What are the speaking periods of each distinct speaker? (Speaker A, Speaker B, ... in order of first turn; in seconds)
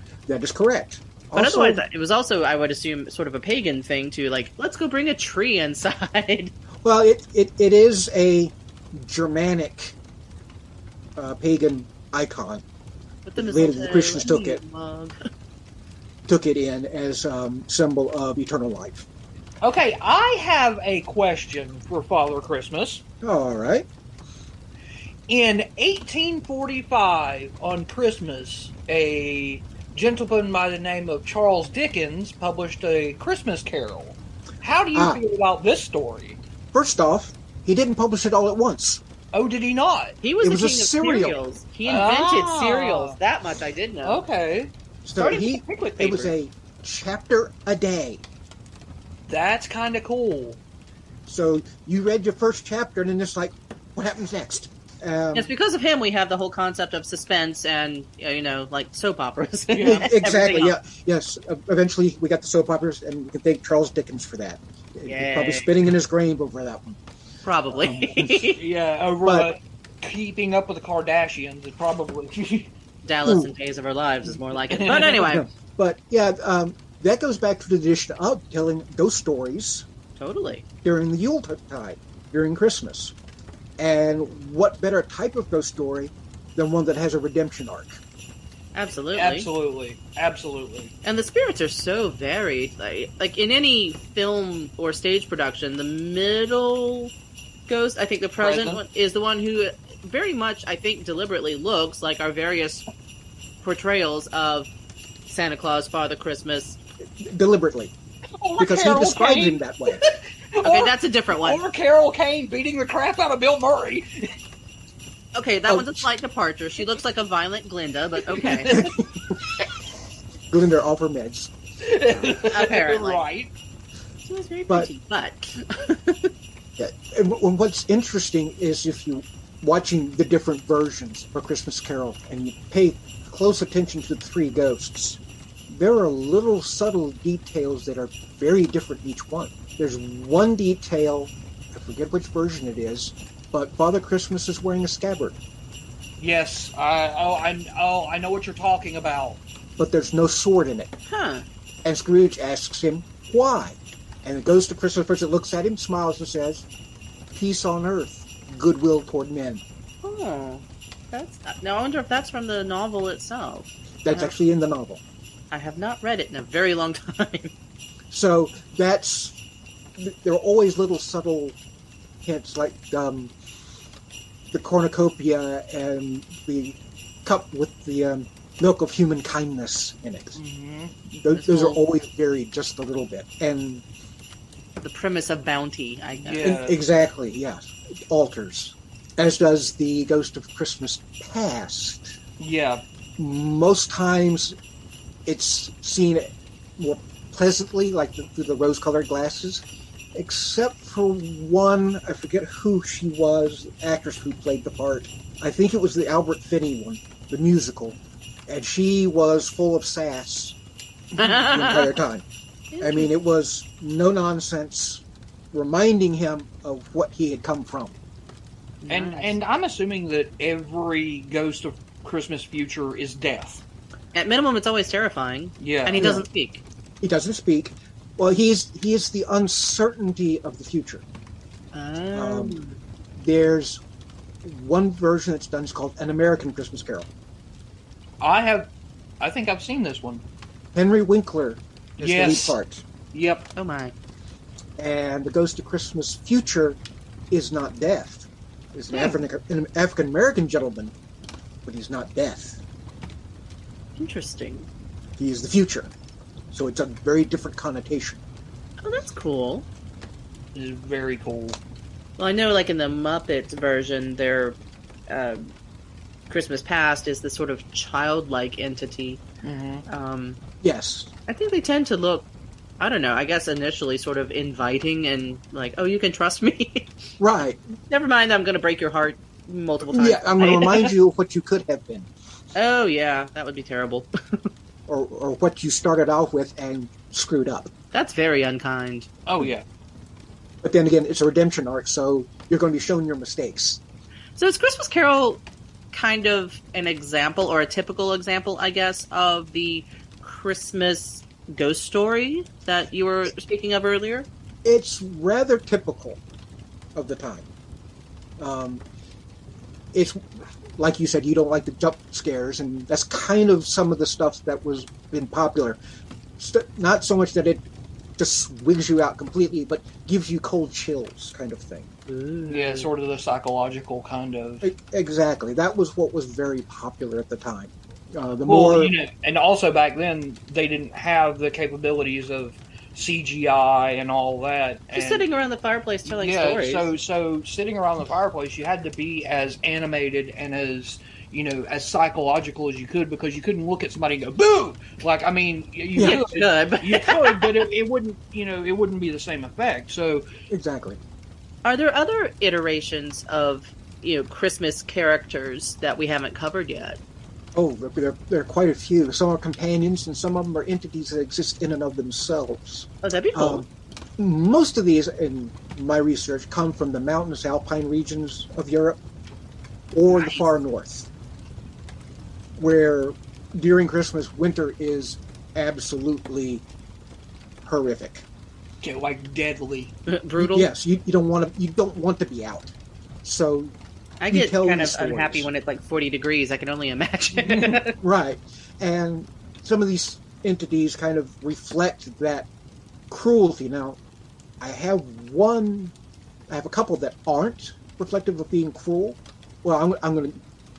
Speaker A: 0.3-1.8, 6.8-10.0, 11.2-12.6, 13.3-14.6, 16.3-19.1, 23.2-23.9, 34.9-35.2, 36.7-39.0, 40.4-41.4, 45.0-48.2, 51.3-55.5, 59.8-67.0, 67.7-68.5, 69.2-69.5, 73.2-73.5, 75.2-79.8, 80.8-83.1, 83.8-88.0, 107.2-107.9, 108.6-110.0, 115.7-116.1, 118.7-119.4, 120.5-121.5, 126.8-145.4, 149.8-150.9, 151.8-156.7, 157.3-159.6, 164.0-165.0, 168.1-169.4, 170.0-171.6, 172.2-173.3, 174.5-180.4, 181.1-183.8, 186.4-192.2, 193.2-194.5, 195.2-199.6, 200.1-210.6, 211.2-212.2, 212.8-217.9, 225.9-226.2, 227.0-231.0, 232.1-232.6, 233.2-233.8, 234.4-237.1, 240.7-242.8, 244.8-246.8, 247.3-250.9, 251.6-252.6, 255.2-255.9, 256.5-258.2, 270.6-271.1, 277.2-277.6, 279.9-282.1, 284.9-287.7, 290.6-293.8, 304.6-306.2, 306.9-307.4, 308.4-308.8, 309.9-310.2, 310.8-315.8, 316.4-317.6, 318.2-321.9, 324.6-328.9, 345.9-346.2, 350.5-351.0, 357.5-363.7, 364.2-369.0, 369.9-371.1, 372.6-376.6, 377.6-378.2, 380.4-383.7, 384.3-385.5, 387.6-392.5, 393.1-394.0, 394.6-395.9, 396.5-400.4
Speaker B: 1.3-6.5, 13.2-15.2, 40.2-44.2, 55.3-60.7, 65.0-65.7, 67.4-68.6, 73.0-75.5, 80.2-80.6, 88.7-89.5, 91.0-97.1, 97.7-102.9, 103.6-104.7, 105.3-106.8, 110.6-111.6, 115.3-118.8, 122.5-123.2, 124.2-126.3, 151.1-151.4, 160.0-164.3, 165.5-167.5, 181.3-181.8, 184.8-186.5, 211.2-211.9, 212.7-213.1, 218.8-219.3, 224.1-226.6, 231.7-232.8, 243.6-243.9, 248.9-249.2, 254.0-254.7, 258.8-259.6, 262.2-264.6, 265.1-265.5, 266.3-269.2, 269.9-270.4, 271.3-272.3, 272.8-276.9, 277.9-280.9, 282.5-284.1, 287.9-289.1, 294.4-304.3, 322.1-322.9, 334.9-336.9, 346.0-347.6, 351.6-357.0, 363.0-363.6, 370.1-370.4, 380.1-380.7, 384.2-387.9
Speaker C: 19.6-23.0, 25.3-36.4, 39.3-40.2, 41.9-43.2, 44.0-46.3, 49.3-50.6, 59.7-60.1, 68.6-72.7, 74.7-75.4, 89.1-90.9, 98.4-98.8, 108.4-114.3, 118.3-118.9, 121.8-123.5, 146.2-149.4, 180.3-180.9, 186.2-186.8, 192.4-192.8, 218.9-223.6, 225.6-226.2, 238.2-238.7, 239.2-240.2, 242.0-242.6, 243.1-243.5, 260.5-261.6, 269.4-269.9, 289.2-289.6, 322.5-324.6, 328.4-335.2, 336.0-350.2, 378.8-379.9